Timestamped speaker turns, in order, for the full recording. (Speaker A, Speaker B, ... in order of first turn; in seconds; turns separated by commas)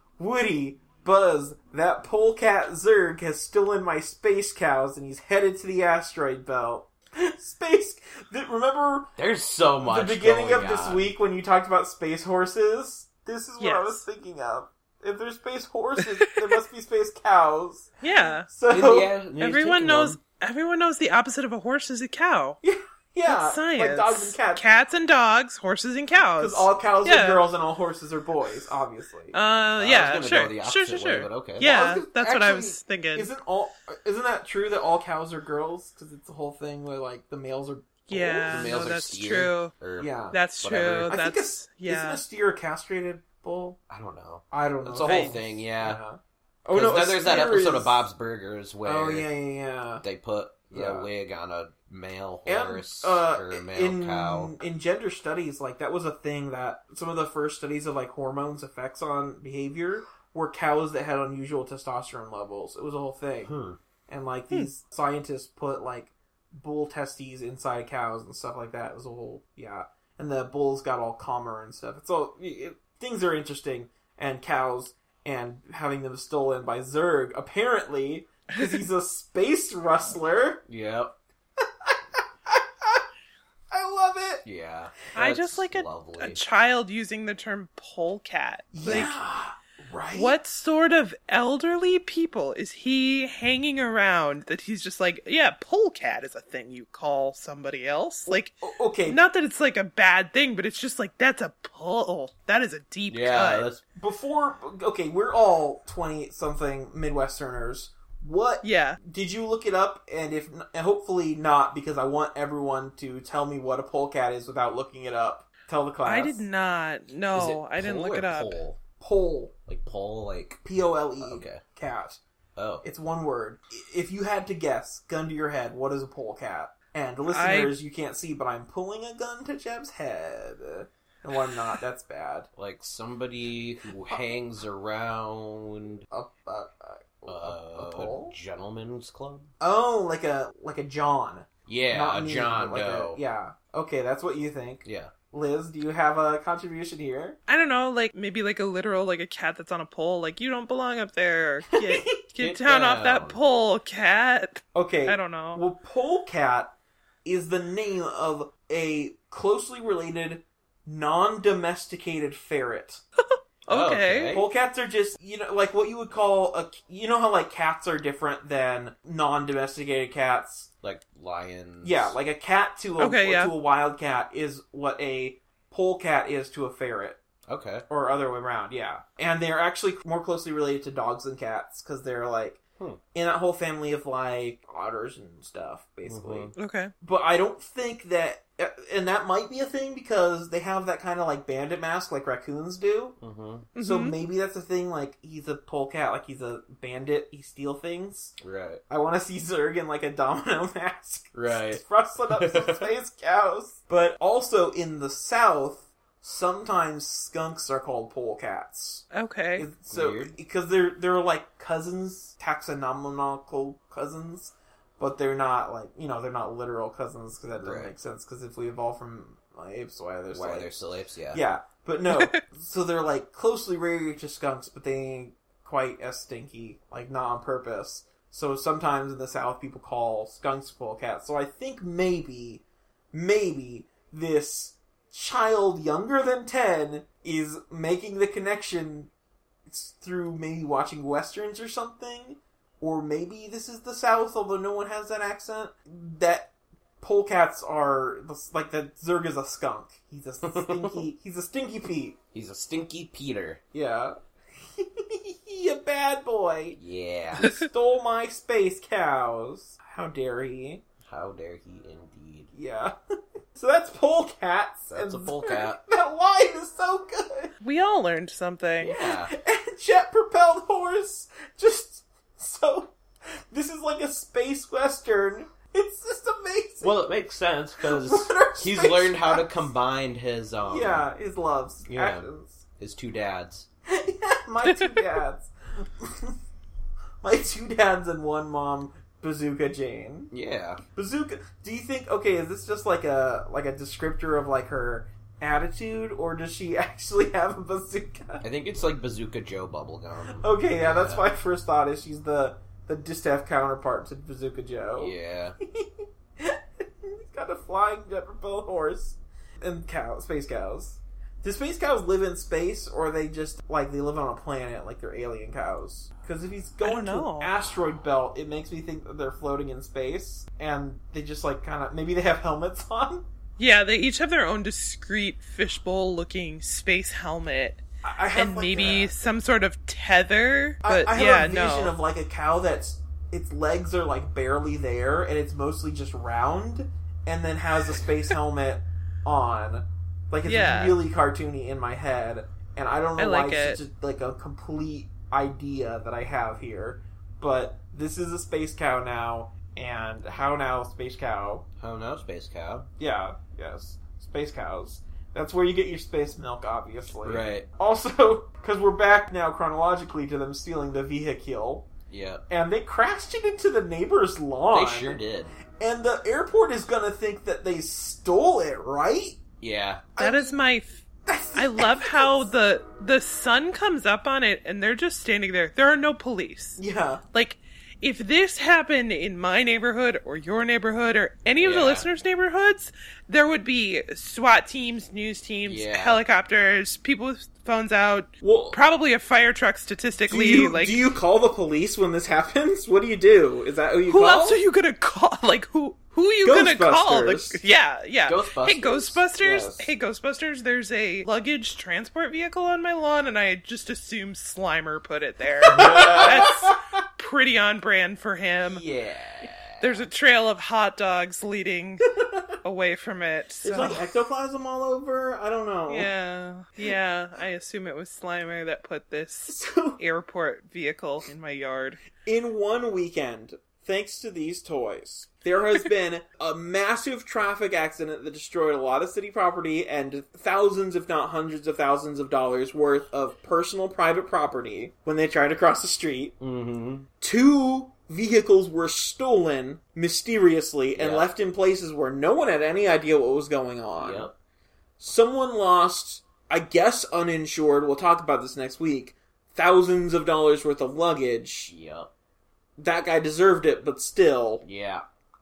Speaker A: 0.2-9.1, Speaker B: 9.2-11.1, Speaker A: 9.8-19.1, Speaker C: 13.6-14.0, Speaker C: 18.0-18.5, Speaker B: 18.7-20.2, Speaker C: 19.4-22.6, Speaker A: 22.6-24.6, Speaker C: 23.2-27.4, Speaker A: 26.4-29.4, Speaker C: 29.3-33.3, Speaker B: 29.8-31.7, Speaker A: 31.6-38.8, Speaker C: 38.1-39.7, Speaker B: 38.5-41.1, Speaker A: 40.0-40.4, Speaker C: 40.3-42.2, Speaker A: 41.1-43.8, Speaker B: 43.9-46.0, Speaker A: 44.5-48.0, Speaker C: 45.0-45.3, Speaker B: 46.7-49.3, Speaker A: 48.8-50.0, Speaker B: 50.0-54.5, Speaker A: 50.7-51.1, Speaker A: 52.5-63.5, Speaker B: 63.4-63.8, Speaker A: 64.1-80.6, Speaker B: 80.7-81.1, Speaker A: 81.8-83.0, Speaker A: 83.7-84.4, Speaker B: 84.4-86.4, Speaker C: 85.1-89.2, Speaker A: 88.7-90.3, Speaker C: 90.1-103.7, Speaker A: 98.3-99.2, Speaker B: 103.1-103.8, Speaker A: 104.0-116.4, Speaker C: 108.6-109.0, Speaker C: 116.0-118.6, Speaker B: 117.3-118.8, Speaker A: 119.0-119.5, Speaker B: 119.7-120.6, Speaker A: 120.6-122.2, Speaker B: 121.2-121.6, Speaker B: 122.5-122.8, Speaker A: 122.8-132.5, Speaker C: 127.3-127.7, Speaker B: 132.6-136.0, Speaker A: 136.1-138.3, Speaker B: 137.2-139.5, Speaker A: 139.6-147.4, Speaker B: 141.7-143.2, Speaker B: 144.8-145.1, Speaker C: 147.5-155.6, Speaker A: 151.7-152.2, Speaker B: 152.4-153.4, Speaker A: 154.7-156.7, Speaker A: 157.2-163.0, Speaker C: 163.3-164.4, Speaker B: 163.7-164.4, Speaker A: 164.3-170.7, Speaker B: 170.8-172.1, Speaker A: 171.8-177.2, Speaker C: 173.0-173.5, Speaker B: 177.5-177.8, Speaker A: 177.9-182.6, Speaker A: 183.1-193.2, Speaker B: 186.1-186.5, Speaker C: 186.6-186.9, Speaker B: 193.2-193.7, Speaker C: 193.7-194.1, Speaker A: 193.8-198.3, Speaker B: 198.4-198.8, Speaker A: 198.9-220.7, Speaker B: 201.3-202.9, Speaker C: 209.1-209.7, Speaker B: 209.9-210.3, Speaker B: 217.6-217.9, Speaker B: 220.3-221.4, Speaker A: 221.3-239.1, Speaker C: 222.1-222.4, Speaker A: 239.7-252.2, Speaker B: 250.4-251.0, Speaker B: 252.3-253.6, Speaker A: 253.7-256.8, Speaker B: 256.8-257.5, Speaker A: 257.4-260.8, Speaker B: 261.0-262.5, Speaker A: 262.5-262.9, Speaker A: 263.5-267.5, Speaker B: 264.9-265.8, Speaker C: 267.6-268.9, Speaker B: 268.8-269.3, Speaker A: 269.0-272.9, Speaker A: 273.5-277.0, Speaker B: 276.8-281.1, Speaker A: 277.8-279.6, Speaker A: 280.6-282.6, Speaker B: 281.9-282.3, Speaker B: 282.8-283.7, Speaker A: 283.9-286.4, Speaker C: 284.6-285.0, Speaker A: 287.2-290.3, Speaker B: 290.3-290.8, Speaker A: 290.9-298.4, Speaker B: 298.4-301.2, Speaker A: 300.3-323.2, Speaker B: 305.0-305.6, Speaker C: 316.8-317.5, Speaker C: 323.6-327.8, Speaker A: 328.0-329.1, Speaker C: 328.3-331.9, Speaker A: 330.8-351.6, Speaker C: 340.4-341.0, Speaker C: 343.2-343.8, Speaker B: 351.8-352.9, Speaker A: 353.0-361.9, Speaker B: 357.2-357.7, Speaker B: 362.1-362.4, Speaker A: 362.5-365.2, Speaker B: 364.7-365.5, Speaker A: 365.8-369.4, Speaker B: 369.6-370.1, Speaker A: 370.1-370.6, Speaker C: 370.2-376.8, Speaker A: 371.2-372.4, Speaker A: 376.8-377.2, Speaker C: 377.3-391.1, Speaker B: 381.6-382.1, Speaker B: 385.6-386.2, Speaker A: 388.4-388.8, Speaker A: 390.3-394.6, Speaker C: 394.1-408.8, Speaker A: 396.4-397.6, Speaker B: 398.2-399.3, Speaker A: 399.4-399.8, Speaker B: 405.6-406.5, Speaker A: 405.7-406.7, Speaker B: 408.6-410.0, Speaker C: 409.8-414.0, Speaker A: 413.6-416.1, Speaker C: 415.9-422.0, Speaker A: 419.5-420.0, Speaker A: 422.2-436.4, Speaker B: 436.4-437.1, Speaker A: 437.2-444.3, Speaker B: 440.9-441.3, Speaker B: 444.0-444.3, Speaker A: 445.0-451.7, Speaker B: 451.7-452.1, Speaker A: 452.8-454.6, Speaker B: 454.6-455.0